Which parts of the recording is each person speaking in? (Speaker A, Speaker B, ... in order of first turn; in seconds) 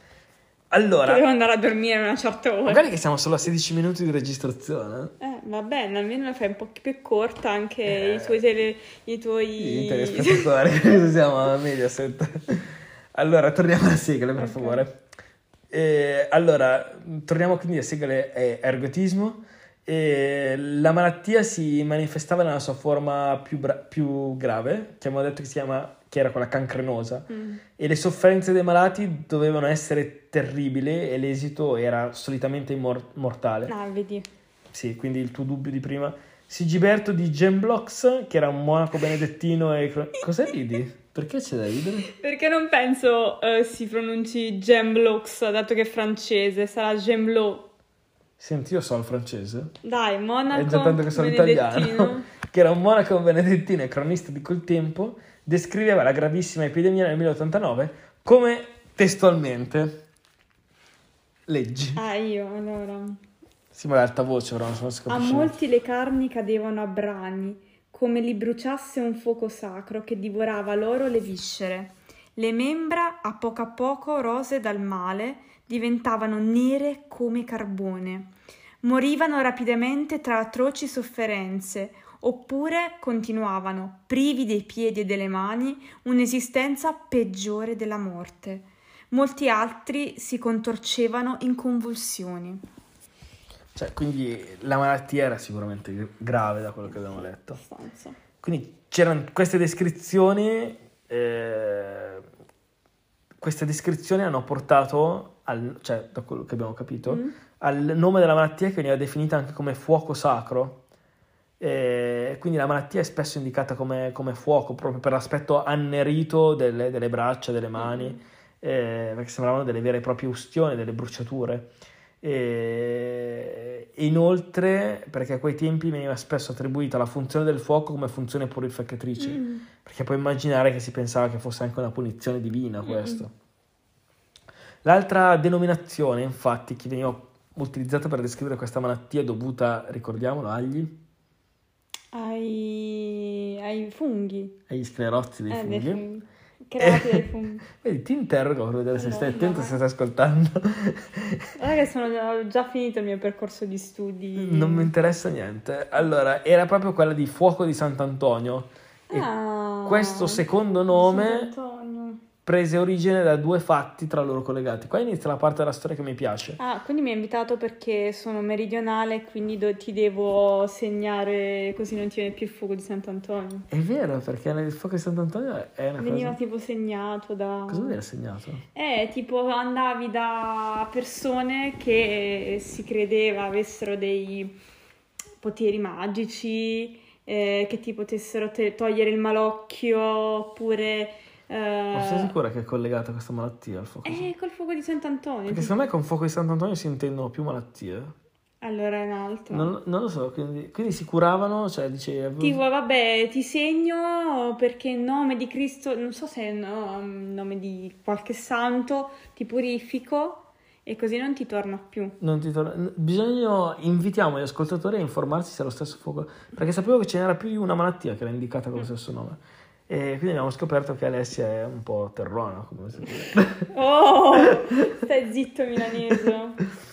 Speaker A: 0.7-1.2, 2.7-5.1, 8.0-8.3, 9.6-15.0, 15.7-33.7, 34.7-42.1, 48.4-49.7, 50.5-60.0, 61.5-62.0, 63.7-65.5, 93.8-97.6, 98.4-102.2, 103.4-110.8, 111.6-121.7, 122.2-133.3, 134.8-141.0, 144.7-146.0, 146.8-151.5, 154.4-159.3, 159.8-161.5, 162.4-166.6, 173.7-176.4, 177.7-178.6, 191.9-194.3, 195.5-198.1, 199.5-202.6, 212.2-223.7
Speaker B: 1.0-2.9, 5.2-10.5, 14.4-14.8, 27.3-27.6, 33.7-34.3, 42.1-47.7, 49.8-52.3, 62.0-63.2, 65.1-92.6, 97.5-98.2, 107.1-107.3, 117.8-118.2, 129.2-129.7, 132.8-133.2, 142.1-144.6, 145.5-147.6, 149.0-149.8, 151.6-154.9, 159.1-162.2, 166.6-173.7, 176.0-178.0, 178.8-184.6, 185.4-192.3, 194.0-195.7, 198.6-199.7, 202.4-212.2, 223.7-226.6